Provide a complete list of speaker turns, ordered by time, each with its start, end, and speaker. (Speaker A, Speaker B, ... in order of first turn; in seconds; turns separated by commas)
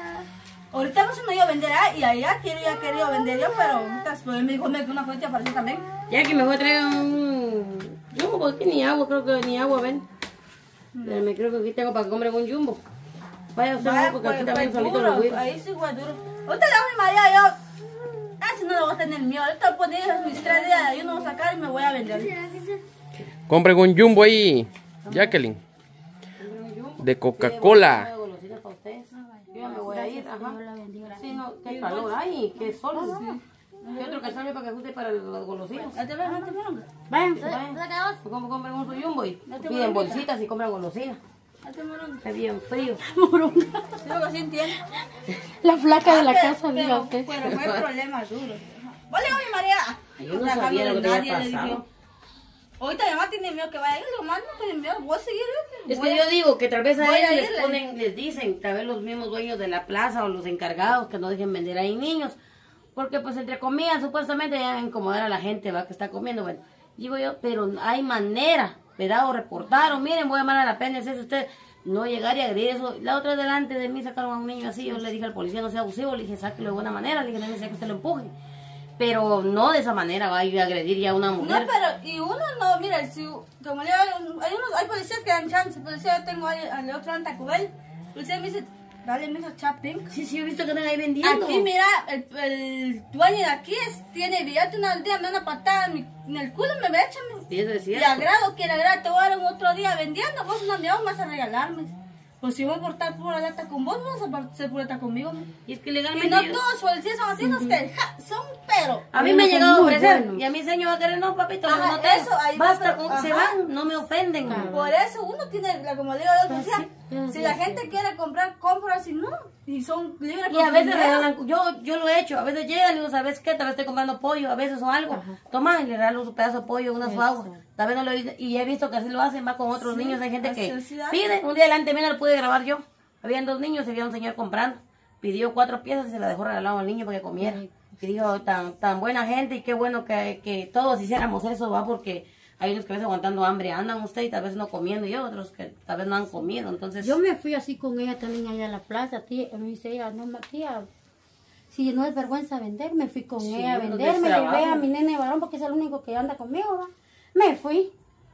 Speaker A: 0.7-5.8, Speaker B: 6.1-10.1, Speaker A: 10.9-11.2, Speaker B: 11.0-12.8, Speaker B: 13.6-15.4, Speaker A: 13.8-17.6, Speaker A: 18.4-22.5, Speaker C: 23.5-25.6, Speaker B: 25.1-25.4, Speaker B: 26.4-30.6, Speaker C: 27.0-28.1, Speaker D: 29.6-31.3, Speaker B: 31.1-33.2, Speaker A: 31.6-32.1, Speaker A: 32.9-34.4, Speaker B: 34.0-36.0, Speaker A: 35.9-36.9, Speaker D: 37.1-38.1, Speaker B: 37.4-41.2, Speaker A: 39.5-40.3, Speaker A: 41.6-42.2, Speaker B: 42.2-43.0, Speaker D: 42.9-44.0, Speaker A: 44.0-44.9, Speaker D: 45.6-47.5, Speaker A: 46.0-51.8, Speaker B: 47.5-47.9, Speaker B: 50.2-51.9, Speaker A: 52.8-56.2, Speaker B: 55.9-62.4, Speaker A: 57.0-57.9, Speaker B: 63.0-78.3, Speaker B: 79.0-81.7, Speaker A: 81.4-90.1, Speaker B: 90.1-91.7, Speaker A: 91.2-105.5, Speaker B: 97.5-98.3, Speaker B: 105.7-106.6, Speaker A: 106.1-109.1, Speaker D: 107.4-107.8, Speaker B: 109.1-114.7, Speaker D: 109.2-110.4, Speaker A: 111.7-113.5, Speaker D: 114.5-114.9, Speaker A: 114.7-121.3, Speaker D: 116.5-117.9, Speaker B: 116.6-116.9, Speaker B: 120.5-147.2, Speaker D: 125.1-125.4, Speaker D: 127.0-127.6, Speaker A: 129.8-131.3, Speaker D: 137.4-137.8, Speaker D: 147.0-150.9, Speaker D: 151.7-157.9, Speaker B: 153.4-154.9